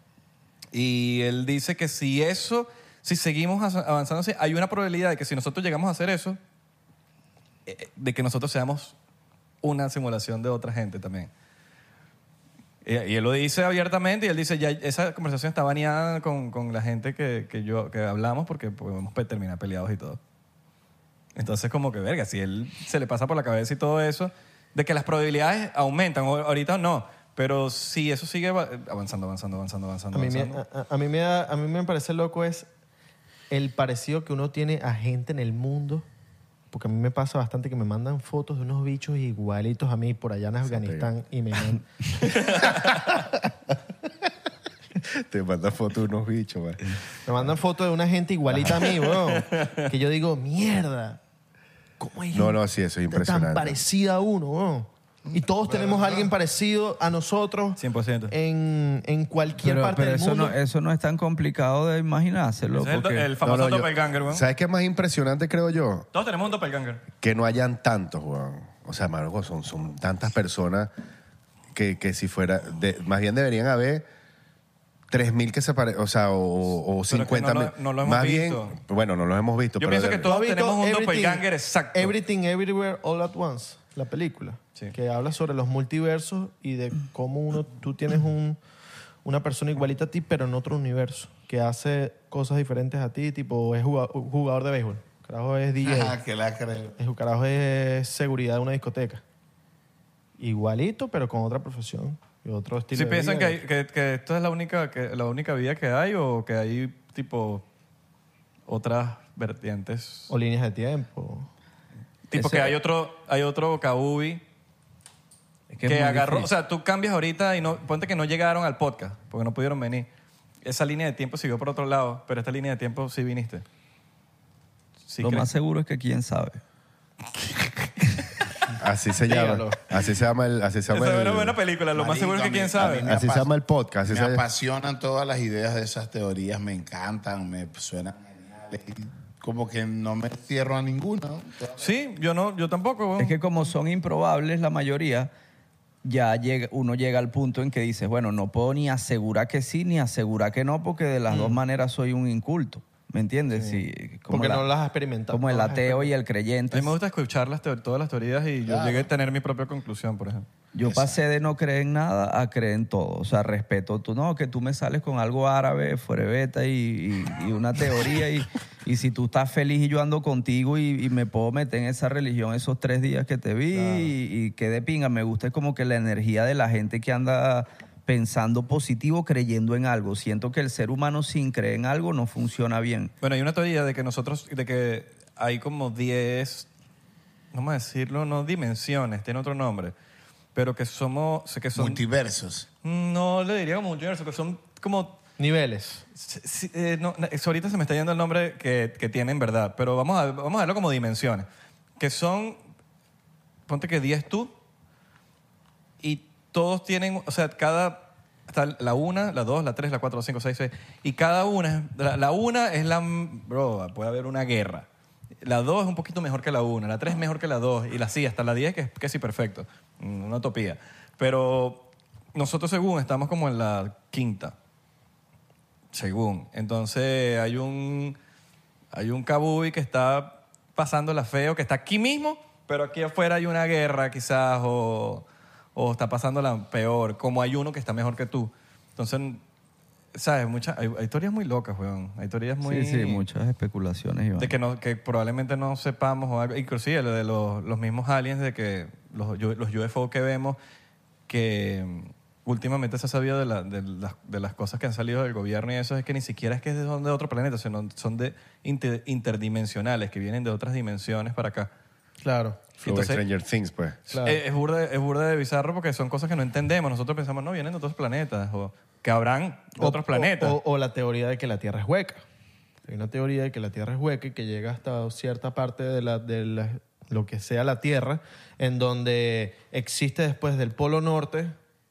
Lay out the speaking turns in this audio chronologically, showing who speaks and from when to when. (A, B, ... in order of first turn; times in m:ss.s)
0:00.7-0:06.4 A
0:07.7-0:09.0 A
0:09.6-0:11.3 A
0:12.8-0:20.2 A
0:21.4-0:30.6 A
0:30.1-0:32.7 B
0:33.5-0:36.0 B
0:36.7-0:42.3 B
0:40.6-0:41.1 C
0:42.3-0:43.1 A
0:45.1-0:46.9 C
0:47.2-0:51.2 B
0:49.1-0:49.9 A
0:52.0-1:00.6 B
0:52.3-0:53.8 C
0:55.6-0:56.2 C
0:57.8-0:58.3 A
0:59.6-1:03.3 D
1:02.7-1:04.4 A
1:03.4-1:06.1 C
1:06.1-1:07.0 A
1:07.2-1:10.9 C
1:11.7-1:14.0 C
1:15.1-1:20.3 C
1:17.1-1:18.7 A
1:19.8-1:22.1 A
1:20.2-1:28.6 B
1:29.2-1:36.2 B
1:35.8-1:37.0 E
1:37.0-1:39.2 B
1:40.4-1:43.6 B
1:42.9-1:47.6 A
1:48.7-1:50.3 A
1:50.3-1:51.5 B
1:52.3-1:54.4 A
1:52.3-1:52.8 D
1:55.7-1:56.5 D
1:55.8-2:00.1 A
2:00.6-2:03.6 A
2:05.1-2:05.5 A
2:05.2-2:06.6 D
2:08.8-2:11.6 C
2:09.3-2:09.8 B
2:10.9-2:13.1 A
2:11.9-2:13.5 E
2:13.0-2:14.4 C
2:14.1-2:21.9 E
2:21.8-2:23.4 A
2:23.2-2:25.3 D
2:26.0-2:34.7 D
2:31.3-2:31.6 B
2:34.3-2:36.1 B
2:35.3-2:36.9 D
2:36.7-2:40.5 A
2:38.6-2:39.1 E
2:40.7-3:03.1 D
2:40.8-2:41.2 E
2:53.7-2:54.1 B
3:03.2-3:06.7 A
3:07.5-3:09.9 A
3:10.5-3:12.0 A
3:11.7-3:12.7 E
3:12.8-3:15.2 A
3:15.4-3:16.0 B
3:16.1-3:21.4 A
3:22.0-3:22.6 A
3:23.7-3:24.5 A
3:26.0-3:34.9 A
3:35.4-3:44.6 A
3:45.9-3:48.2 A
3:48.9-3:59.4 A
4:00.1-4:03.2 A
4:02.6-4:04.5 D
4:04.4-4:10.6 A
4:11.3-4:21.7 A
4:22.2-4:22.6 B
4:22.8-4:24.0 C
4:22.8-4:23.2 A
4:24.1-4:24.4 B
4:24.1-4:30.6 A
4:29.8-4:32.2 B
4:32.9-4:41.5 B